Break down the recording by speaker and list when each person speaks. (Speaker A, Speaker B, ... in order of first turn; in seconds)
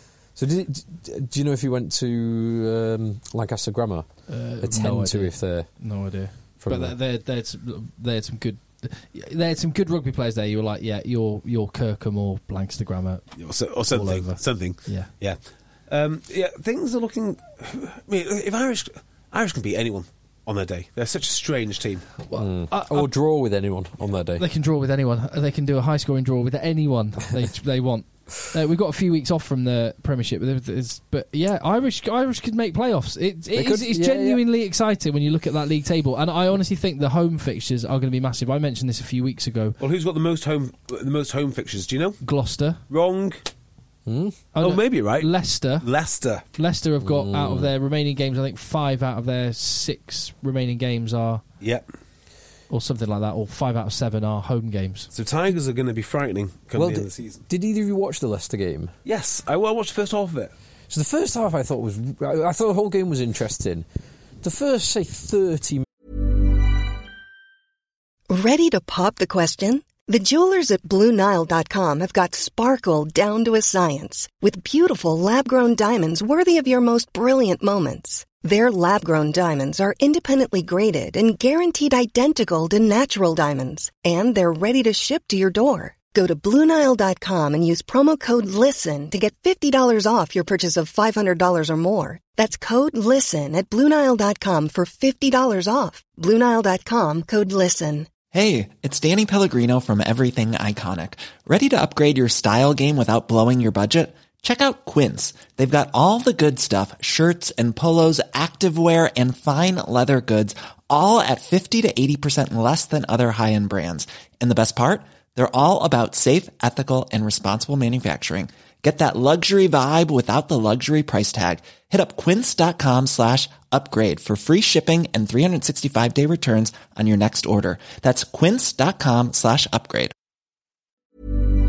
Speaker A: 0.4-5.7, 6.6-7.0, 22.3-24.4, 33.5-34.4, 44.1-44.4, 47.0-47.7, 56.8-58.9, 60.9-63.9, 64.4-65.9
Speaker B: 4.3-13.3, 13.9-15.1, 22.3-23.1, 24.4-39.8, 42.2-42.8, 44.5-45.9, 46.5-51.4, 52.7-55.1
Speaker C: 13.4-15.4, 15.9-22.1, 39.8-42.2, 42.9-43.4, 44.6-46.4, 55.1-57.4, 59.0-60.5
Speaker D: 68.3-98.1
Speaker E: 98.3-130.1